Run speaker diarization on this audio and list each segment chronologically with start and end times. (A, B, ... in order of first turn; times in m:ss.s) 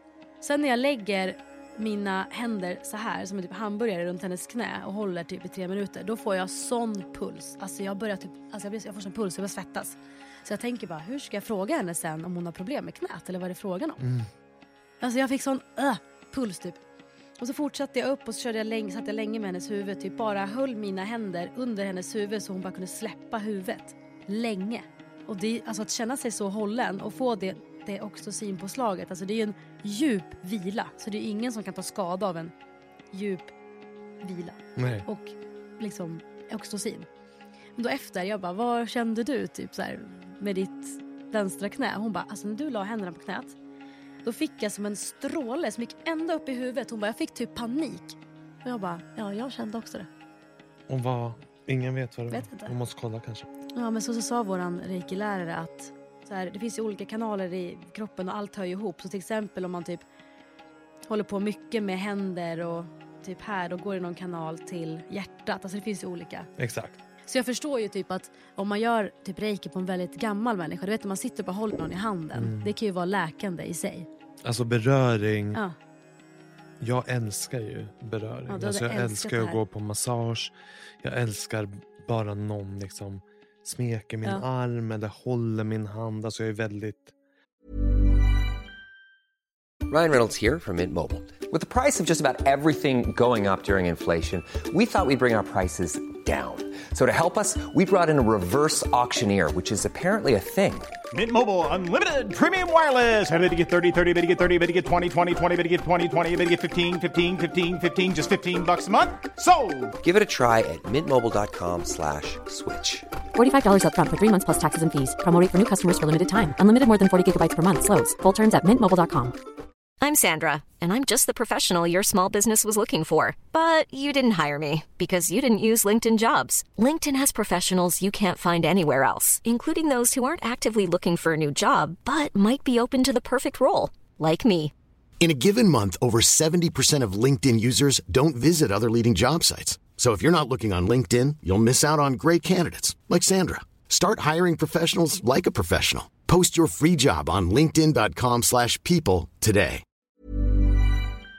0:00.4-0:14.0 A
0:14.0-0:14.3 B
0:15.0-0:16.8 A
0:17.4-0:32.5 A
0:33.1-0:33.5 A
0:34.2-0:37.1 A
0:34.8-0:35.0 B
0:37.8-0:43.6 A
0:44.2-0:50.1 A
0:50.9-0:53.5 B
0:52.3-0:52.7 A
0:53.7-1:00.0 A
1:01.1-1:06.5 A
1:06.6-1:07.0 B
1:07.2-1:14.1 A
1:12.3-1:12.7 B
1:14.4-1:15.6 B
1:16.8-1:27.1 B
1:18.5-1:19.6 A
1:29.9-1:40.9 C
1:41.1-1:50.0 D
1:50.0-1:53.0 C
1:53.3-1:59.4 E
2:00.0-2:14.7 F
2:15.2-2:29.8 G